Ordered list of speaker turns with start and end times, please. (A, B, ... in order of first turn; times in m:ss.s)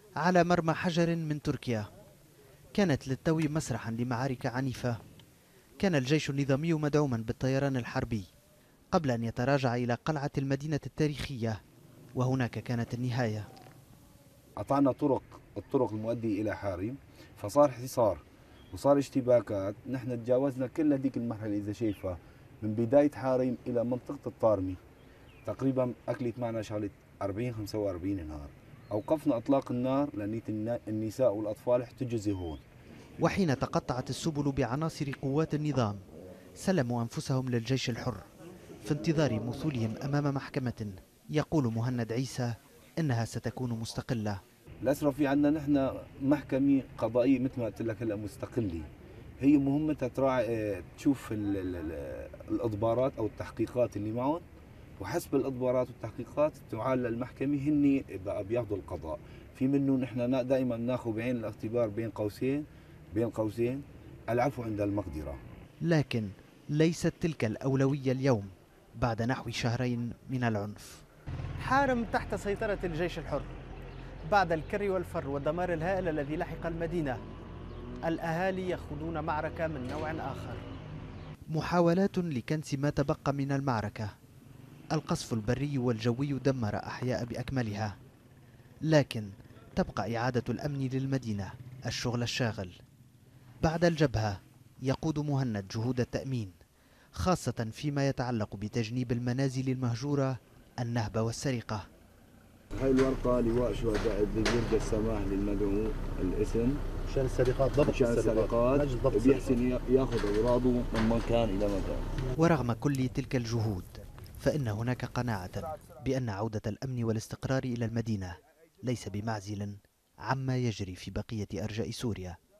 0:00.2-0:01.9 A
0:02.8-0:05.0 A
0:05.8-0:08.3 A
0:08.9-0:11.6 A
0:12.2-0:13.5 A
0:14.6-0:24.8 B
0:25.5-0:32.6 B
0:33.2-0:36.0 A
0:36.6-0:38.2 A
0:38.8-0:44.4 A
0:44.8-0:48.9 B
0:49.4-0:54.4 B
0:55.0-1:05.4 B
1:05.8-1:11.0 A
1:11.6-1:13.5 A
1:14.3-1:17.2 A
1:18.1-1:20.6 A
1:21.5-1:24.1 A
1:24.9-1:28.0 A
1:28.9-1:32.8 A
1:33.6-1:36.6 A
1:37.2-1:41.9 A
1:42.8-1:46.8 B
1:47.1-1:49.5 C
1:47.8-1:52.0 B
1:52.4-2:02.4 A